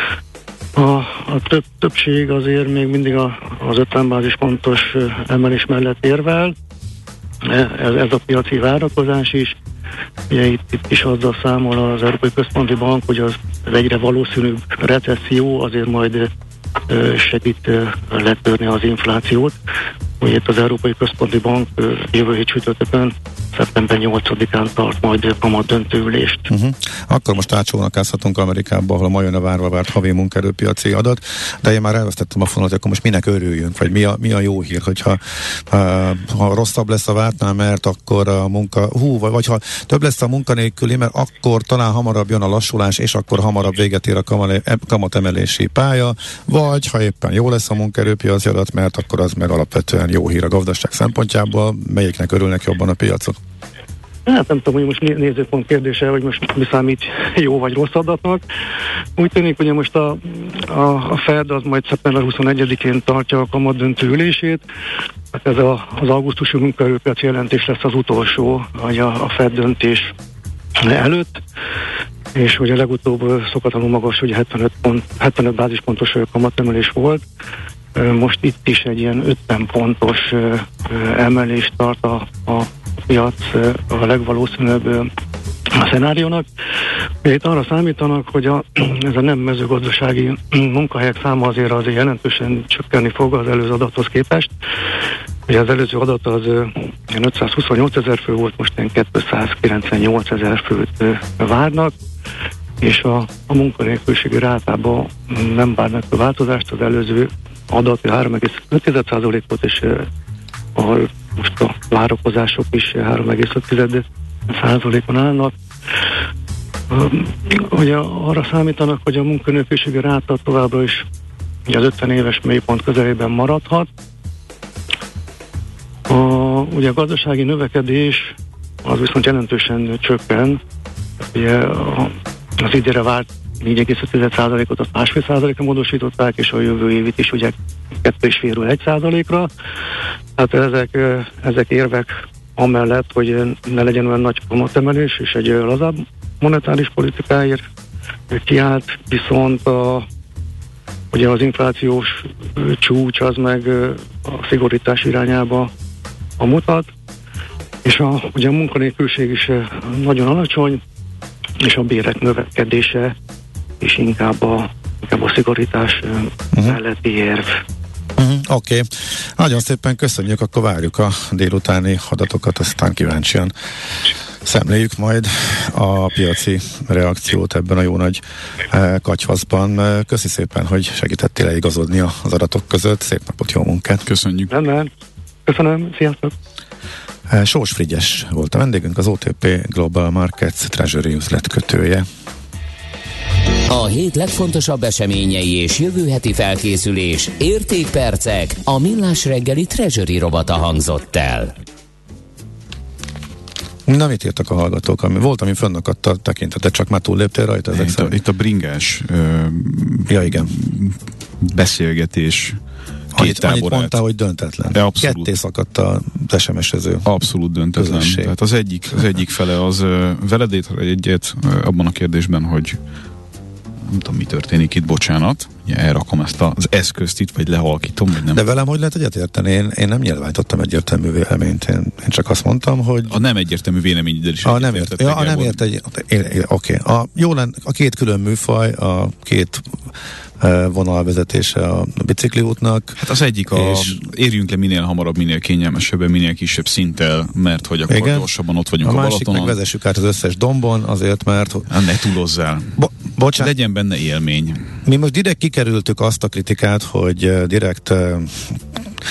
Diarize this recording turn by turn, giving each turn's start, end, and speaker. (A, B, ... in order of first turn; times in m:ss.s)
0:00.8-0:06.6 A
0:07.4-0:09.6 A
0:10.3-0:16.3 A
0:16.9-0:19.6 A
0:20.2-0:26.5 A
0:26.5-0:53.4 B
0:54.3-0:58.4 A
0:59.2-1:04.6 A
1:05.3-1:10.1 A
1:10.8-1:11.4 A
1:12.4-1:17.2 A
1:18.0-1:25.1 A
1:25.8-1:26.5 A
1:27.2-1:34.5 A
1:35.5-1:41.9 A
1:42.8-1:50.1 A
1:50.8-1:55.6 A
1:56.9-2:01.1 A
2:01.7-2:03.9 A
2:06.1-2:10.6 A
2:11.3-2:19.5 A
2:20.4-2:27.6 A
2:28.3-2:30.1 A
2:31.1-2:35.7 A
2:36.4-2:36.9 A
2:37.8-2:40.8 A
2:41.6-2:43.2 A
2:43.8-2:47.6 A
2:48.2-2:53.5 B
2:54.4-3:04.0 B
3:04.0-3:04.5 C
3:04.5-3:04.9 A
3:05.5-3:06.3 A
3:07.3-3:12.1 B
3:13.7-3:21.5 D
3:23.9-3:28.2 B
3:27.7-3:32.6 C
3:30.1-3:30.5 B
3:33.1-3:37.1 B
3:33.2-3:34.0 C
3:34.7-3:35.3 C
3:37.0-3:42.8 C
3:37.8-3:38.3 B
3:43.9-3:48.4 C
3:48.3-3:53.2 B
3:53.1-3:55.6 C
3:54.4-3:59.7 B
4:00.4-4:03.0 B
4:03.0-4:09.6 C
4:03.5-4:04.0 B
4:07.9-4:08.3 B
4:08.8-4:11.7 B
4:11.7-4:12.8 C
4:12.8-4:13.5 B
4:13.4-4:14.7 C
4:14.8-4:18.8 B